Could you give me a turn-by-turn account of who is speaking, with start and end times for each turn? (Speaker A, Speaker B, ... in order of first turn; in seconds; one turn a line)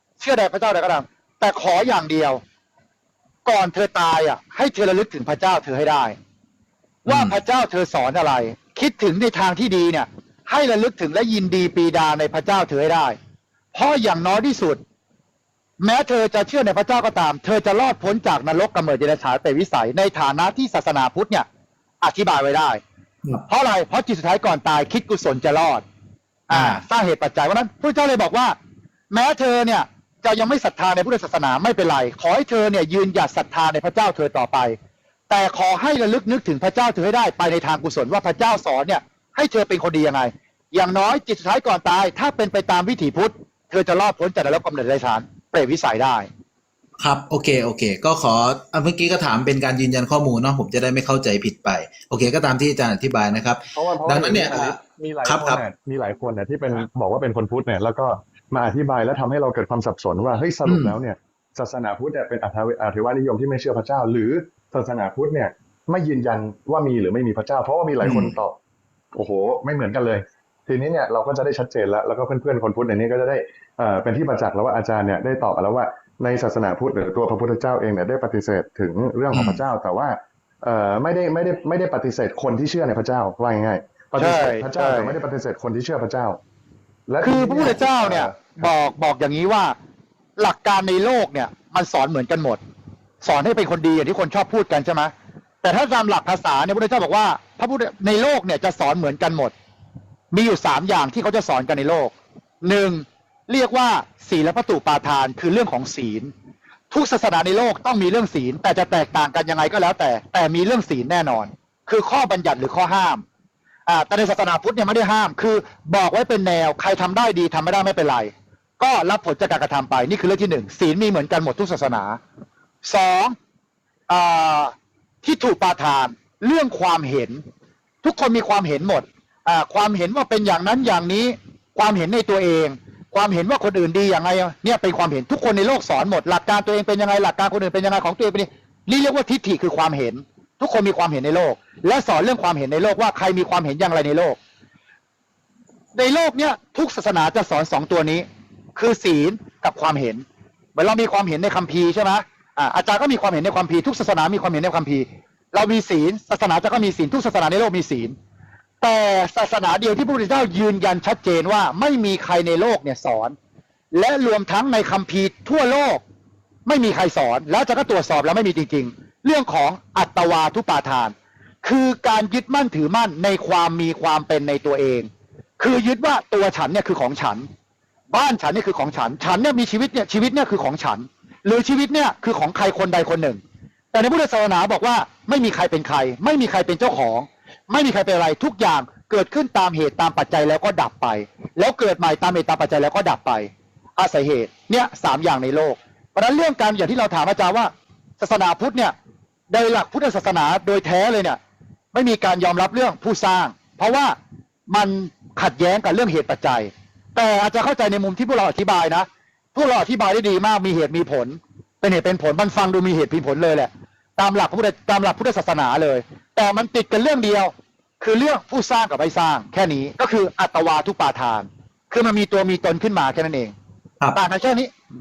Speaker A: 0.2-2.4
Speaker A: 3.4-6.2
Speaker B: 7.1-7.4
Speaker A: 7.1-13.2
Speaker A: 13.7-14.8
Speaker A: 15.8-21.4
Speaker A: 22.0-22.8
Speaker A: 23.5-25.8
Speaker A: 26.5-28.6
Speaker B: 26.5-26.8
Speaker A: 29.1-34.8
Speaker A: 35.3-46.3
Speaker B: 47.0-55.6
Speaker C: 53.7-68.5
Speaker B: 60.6-61.0
Speaker B: 68.0-68.3
Speaker C: 69.1-86.4
Speaker B: 79.3-79.6
Speaker A: 84.2-85.2
Speaker C: 87.1-88.7
Speaker A: 87.2-89.8
Speaker A: 90.4-92.6
Speaker A: 93.2-99.5
Speaker A: 100.3-106.3
Speaker A: 106.9-113.2
Speaker A: 113.9-122.2
Speaker A: 122.8-123.3
Speaker A: 124.1-127.4
Speaker A: 128.0-144.4
Speaker A: 145.9-150.2
Speaker A: 150.7-158.1
Speaker A: 158.8-163.3
Speaker A: 163.9-166.0
Speaker A: 166.7-177.5
Speaker A: 178.1-183.4
Speaker A: 183.9-198.9
Speaker A: 199.5-201.4
Speaker A: 201.9-204.2
Speaker A: 204.7-223.5
Speaker A: 224.1-224.7